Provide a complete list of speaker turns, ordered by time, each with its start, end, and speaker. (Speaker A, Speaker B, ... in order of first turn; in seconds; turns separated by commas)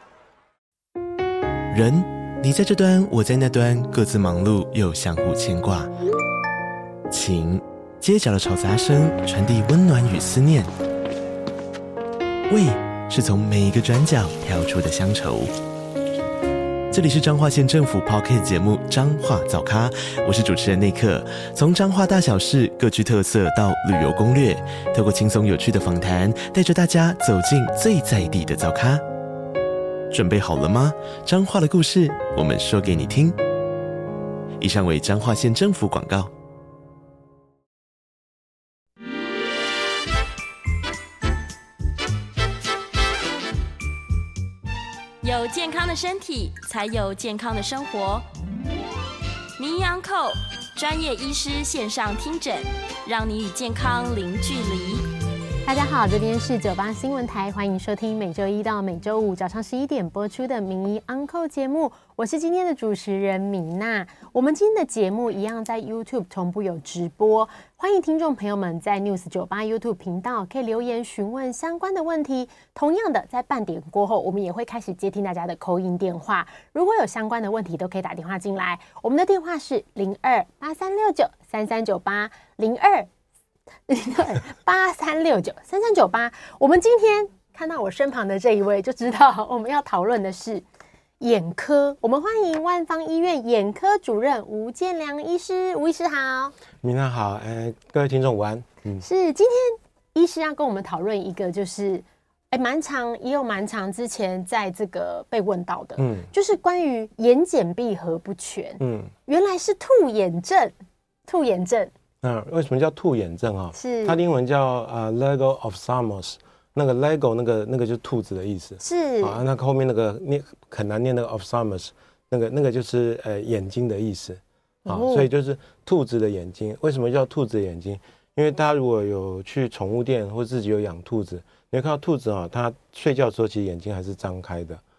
Speaker A: 1.7-5.9, Speaker A: 7.1-10.7, Speaker A: 12.5-15.5, Speaker A: 16.9-29.0, Speaker A: 30.1-33.4, Speaker A: 34.6-36.3, Speaker B: 45.2-48.2, Speaker B: 49.6-55.0, Speaker C: 55.6-83.1, Speaker C: 83.9-90.6, Speaker C: 91.2-96.5, Speaker D: 96.8-99.0, Speaker C: 99.0-110.7, Speaker D: 106.0-106.3, Speaker D: 108.8-109.1, Speaker C: 111.3-111.9, Speaker D: 112.2-134.8, Speaker C: 113.7-114.2, Speaker C: 118.8-119.4, Speaker C: 124.8-125.3